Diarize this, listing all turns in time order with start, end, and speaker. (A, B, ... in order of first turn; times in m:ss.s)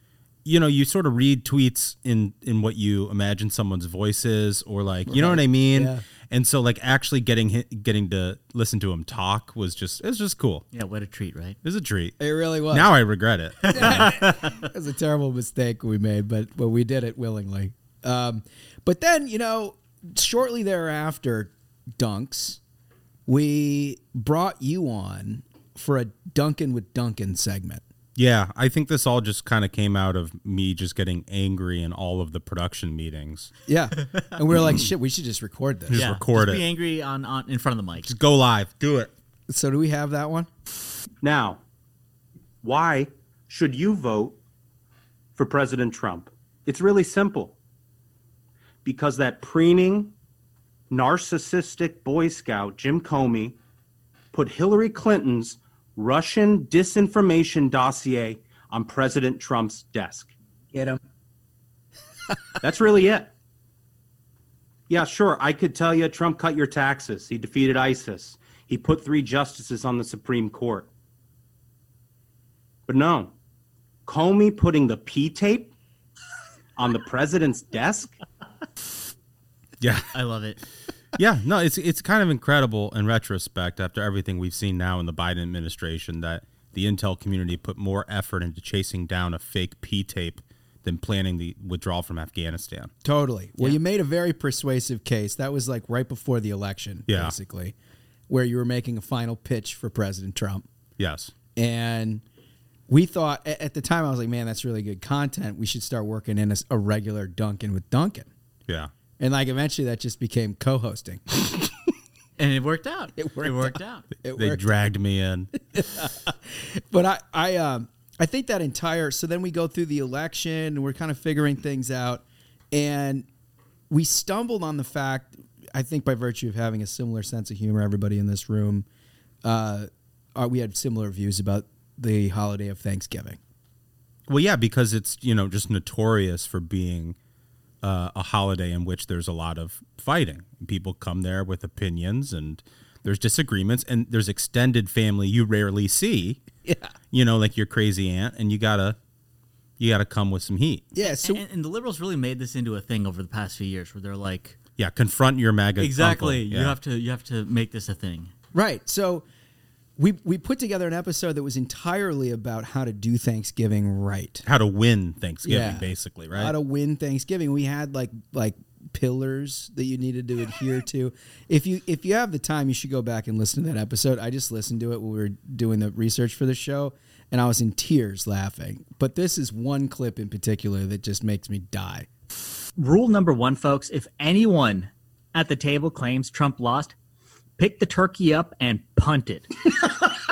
0:00.4-0:10.6 A
0:05.1-0:06.0 B
0:10.7-0:11.6 C
0:11.6-0:12.2 A
0:12.2-0:12.9 B
0:12.7-0:14.2 A
0:13.6-0:14.6 C
0:13.7-0:22.6 B
0:23.3-0:27.8 B
0:28.2-0:33.5 A
0:33.7-0:36.0 B
0:35.9-0:36.6 A
0:35.9-0:38.1 C
0:38.0-0:39.1 A
0:39.5-0:40.5 B
0:41.2-0:41.6 D
0:42.6-0:44.4 D
0:45.4-0:47.6 D
0:48.8-0:50.1 D
0:50.9-0:53.6 D
0:54.3-1:00.3 D
1:02.6-1:03.3 D
1:04.9-1:10.9 D
1:12.9-1:13.3 D
1:14.1-1:15.7 D
1:16.8-1:18.2 D
1:19.8-1:20.1 A
1:20.1-1:20.6 C
1:21.2-1:32.9 A
1:33.0-1:37.8 B
1:37.1-1:37.3 A
1:38.3-1:40.7 B
1:41.0-1:41.3 A
1:41.6-1:42.2 B
1:42.9-1:48.3 B
1:49.2-1:51.2 B
1:52.4-1:54.1 C
1:53.2-1:54.7 B
1:54.4-1:55.5 A
1:55.7-2:03.3 B
2:03.9-2:08.9 B
2:09.4-2:13.4 B
2:14.3-2:17.2 A
2:17.8-2:26.4 A
2:26.7-2:26.9 B
2:27.1-2:29.0 A
2:29.8-2:30.8 A
2:30.9-2:31.4 B
2:31.0-2:34.6 C
2:34.8-2:36.8 A
2:35.8-2:38.3 C
2:38.5-2:39.2 B
2:40.0-2:44.4 B
2:44.4-2:46.5 A
2:45.4-3:02.1 B
3:02.8-3:06.9 E
3:07.6-3:09.5 E